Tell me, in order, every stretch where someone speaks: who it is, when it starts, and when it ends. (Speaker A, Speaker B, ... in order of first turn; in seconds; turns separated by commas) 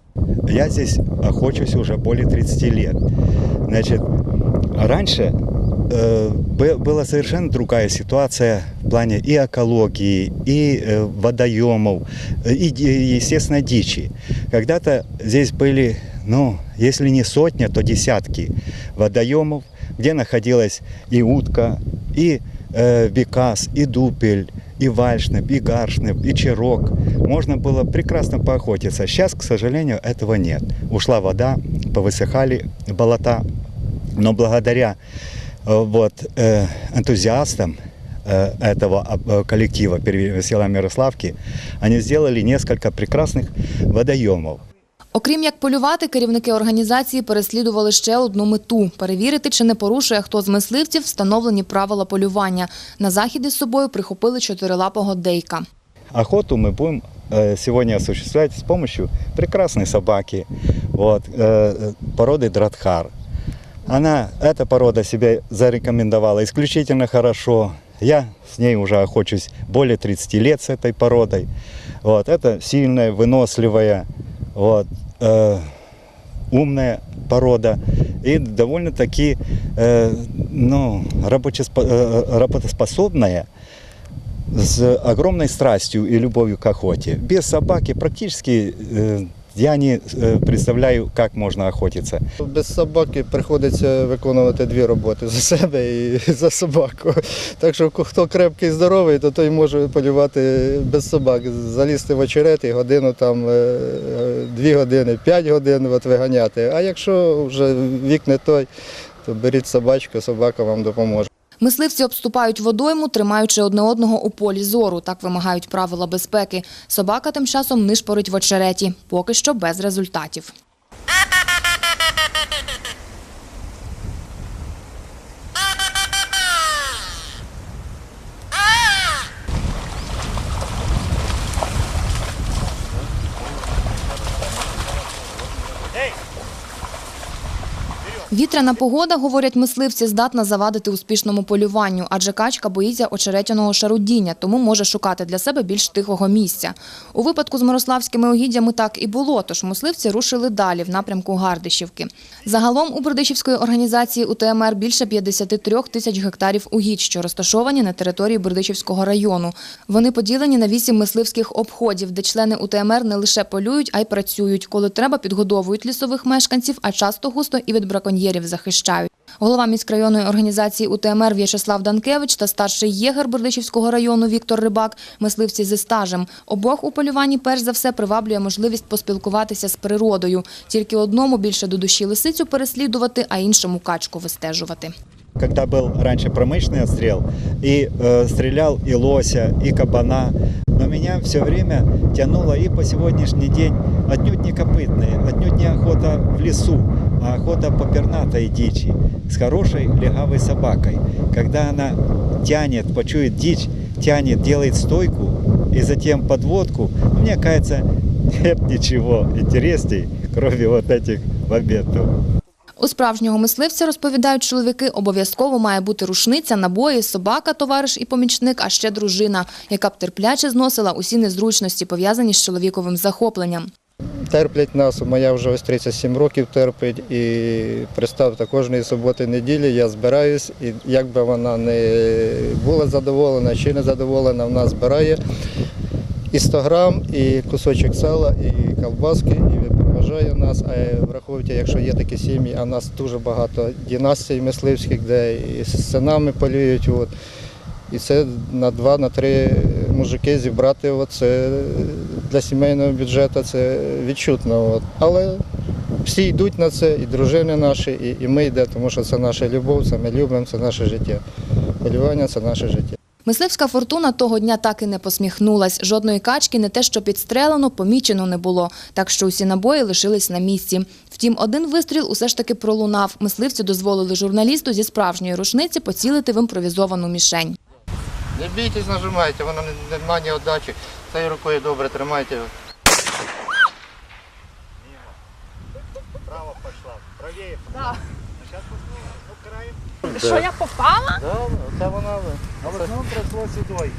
Speaker A: 0.5-3.0, Speaker A: 3.7-4.0, Speaker A: 4.8-5.3, Speaker A: 5.9-33.4, Speaker A: 34.2-35.0, Speaker A: 35.7-44.6, Speaker B: 45.1-55.6, Speaker A: 56.1-63.1, Speaker A: 63.9-71.5, Speaker A: 72.0-75.7, Speaker A: 76.5-83.5, Speaker A: 84.5-92.2, Speaker C: 92.4-108.7, Speaker C: 109.2-111.3, Speaker B: 111.6-120.5, Speaker B: 138.3-184.9, Speaker A: 185.4-212.1, Speaker B: 212.8-223.7, Speaker C: 224.3-235.2, Speaker C: 236.3-247.1, Speaker C: 247.9-255.4, Speaker C: 256.0-261.2, Speaker C: 261.8-263.0, Speaker B: 263.2-277.6, Speaker C: 278.4-282.5, Speaker A: 286.3-288.0, Speaker A: 288.9-289.7, Speaker C: 290.1-290.4, Speaker B: 290.4-291.1, Speaker C: 291.2-293.9